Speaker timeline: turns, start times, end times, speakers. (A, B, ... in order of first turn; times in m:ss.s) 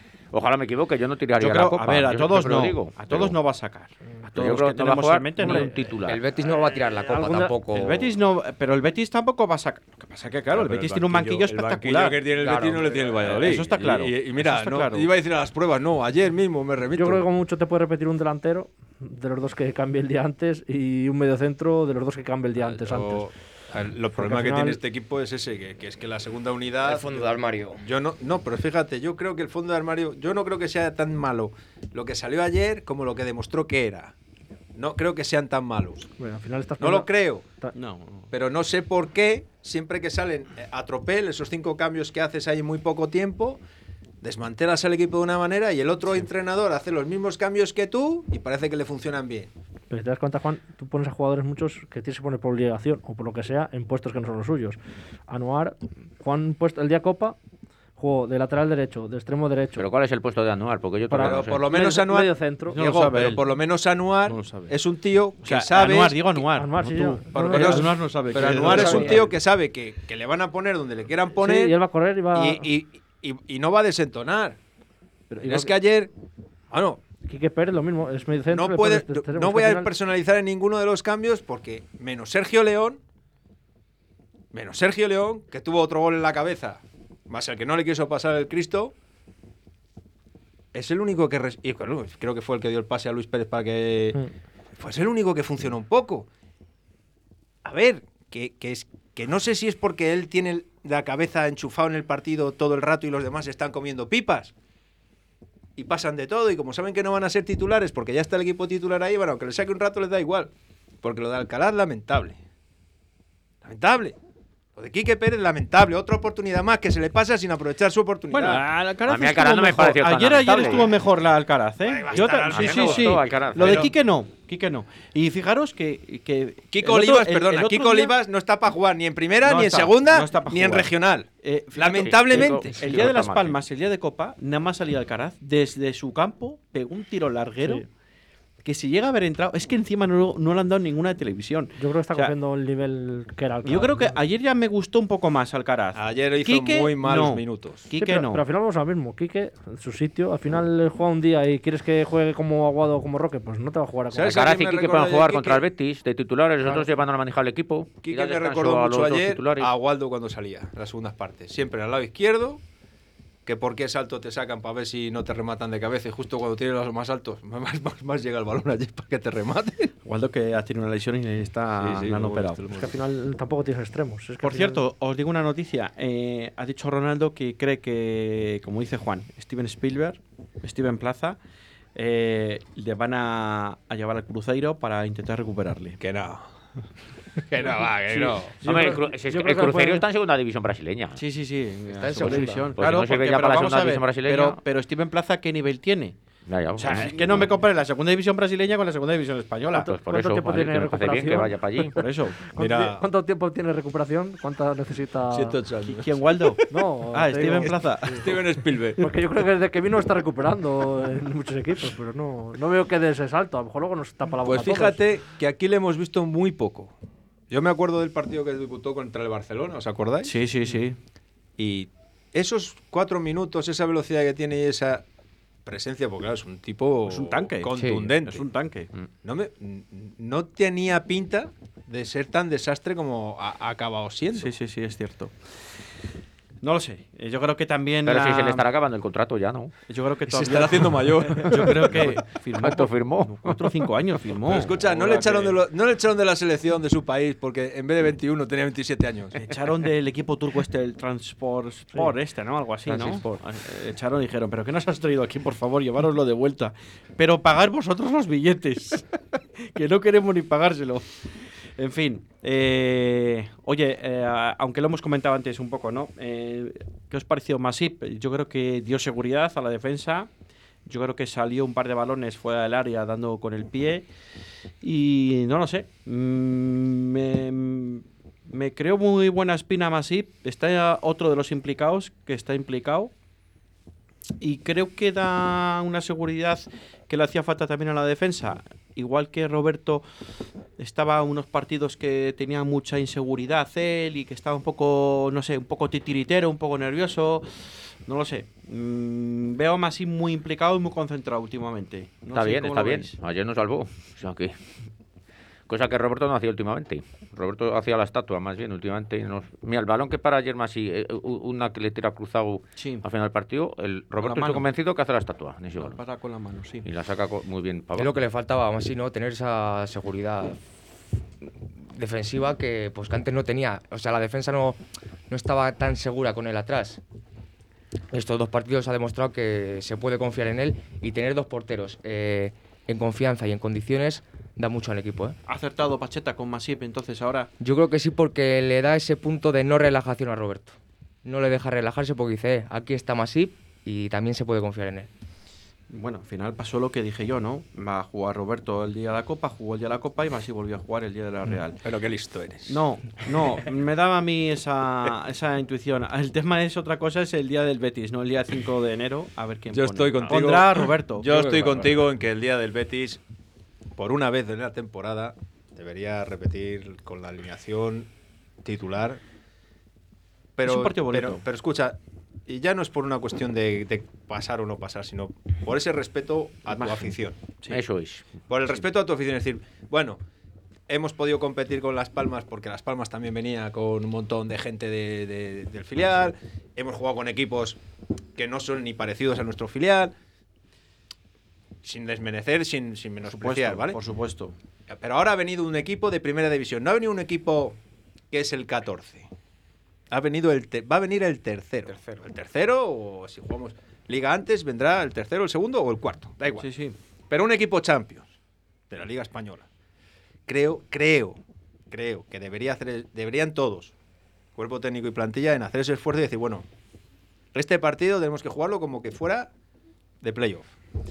0:00.3-0:03.4 A
0:01.4-0:05.8 B
0:04.4-0:06.2 A
0:05.4-0:05.7 C
0:06.0-0:08.2 D
0:07.1-0:07.6 C
0:07.7-0:12.2 B
0:10.5-0:17.3 E
0:12.4-0:13.1 D
0:13.2-0:15.1 B
0:17.0-0:23.3 C
0:22.6-0:34.1 E
0:24.2-0:24.8 C
0:26.8-0:27.8 D
0:34.8-0:36.1 E
0:36.2-0:37.7 C
0:36.8-0:37.4 E
0:37.8-0:38.3 B
0:38.3-0:43.6 E
0:44.2-0:49.5 E
0:49.9-0:54.8 C
0:55.3-0:57.4 C
0:58.0-0:59.9 C
0:59.8-1:01.7 A
1:01.1-1:02.8 C
1:01.2-1:06.2 E
1:02.7-1:03.5 B
1:04.3-1:04.8 B
1:05.4-1:09.3 B
1:06.5-1:07.9 C
1:07.3-1:11.8 E
1:08.6-1:09.3 D
1:11.4-1:12.7 C
1:12.3-1:14.6 E
1:15.3-1:15.8 C
1:15.4-1:16.1 E
1:16.7-1:17.0 E
1:17.3-1:19.9 C
1:18.5-1:23.0 E
1:24.5-1:28.9 E
1:30.7-1:34.2 E
1:34.8-1:36.3 E
1:37.6-1:44.5 E
1:45.8-1:50.5 E
1:51.0-1:52.4 E
1:53.6-1:54.2 E
1:54.8-1:58.6 E
1:58.3-2:08.2 B
1:59.1-2:01.0 A
2:00.5-2:00.8 E
2:01.8-2:03.9 E
2:02.5-2:03.9 A
2:06.7-2:13.0 E
2:09.4-2:10.9 B
2:11.4-2:17.8 B
2:11.9-2:13.6 A
2:18.6-2:22.3 B
2:21.8-2:24.2 C
2:23.6-2:28.4 B
2:26.0-2:27.9 E
2:28.0-2:34.5 C
2:34.1-2:35.7 E
2:34.2-2:39.7 A
2:38.0-2:42.6 E
2:43.5-2:49.9 E
2:50.0-2:52.6 B
2:51.8-2:53.0 E
2:52.8-2:54.8 C
2:54.4-3:01.4 B
3:02.0-3:06.0 B
3:06.0-3:06.4 E
3:07.4-3:08.6 E
3:08.6-3:11.2 A
3:08.6-3:10.0 C
3:11.2-3:16.2 B
3:12.0-3:12.7 D
3:12.1-3:14.6 A
3:16.5-3:17.5 A
3:16.8-3:19.9 B
3:17.0-3:17.4 E
3:19.7-3:25.6 C
3:19.9-3:22.0 A
3:22.0-3:22.4 B
3:22.6-3:23.0 E
3:25.3-3:26.2 E
3:25.8-3:28.3 B
3:26.7-3:28.2 C
3:28.1-3:29.0 E
3:29.0-3:35.0 C
3:34.4-3:36.9 E
3:37.5-3:40.4 E
3:40.2-3:41.0 B
3:41.6-3:45.0 E
3:45.7-3:48.5 E
3:47.1-3:48.9 B
3:47.8-3:48.0 D
3:49.2-3:54.5 E
3:54.3-3:55.4 B
3:56.6-3:58.7 B
3:58.1-3:59.7 A
3:59.9-4:05.6 B
4:00.3-4:02.1 E
4:01.6-4:02.0 A
4:02.6-4:03.8 A
4:04.5-4:09.4 E
4:09.4-4:19.1 B
4:12.9-4:13.2 A
4:19.6-4:21.1 B
4:21.8-4:30.3 B
4:30.9-4:34.0 B
4:34.8-4:43.1 B
4:44.4-4:50.0 B
4:50.8-5:03.2 B
5:02.3-5:04.6 A
5:05.7-5:16.0 A
5:12.8-5:13.1 B
5:14.2-5:14.7 B
5:15.8-5:16.9 B
5:16.8-5:18.1 A
5:18.0-5:20.6 D
5:21.8-5:27.0 D
5:28.1-5:35.4 D
5:35.5-5:37.5 B
5:37.6-5:45.1 D
5:45.9-5:51.8 B
5:51.8-5:52.8 E
5:52.7-6:02.0 B
5:59.7-6:03.2 E
6:04.0-6:08.1 E
6:08.6-6:09.2 E
6:10.6-6:17.4 E
6:10.6-6:11.4 B
6:16.7-6:17.8 B
6:17.7-6:18.2 A
6:18.5-6:20.2 E
6:20.9-6:27.8 E
6:28.4-6:30.1 E
6:31.8-6:34.0 E
6:33.2-6:34.5 B
6:34.9-6:37.8 E
6:38.3-6:39.3 E
6:40.1-6:46.7 E
6:46.5-6:47.0 B
6:47.3-6:48.3 E
6:48.9-6:49.7 E
6:50.5-6:51.4 E
6:51.9-6:53.9 E
6:54.6-6:56.7 E
6:57.5-6:59.5 E
7:00.2-7:00.7 E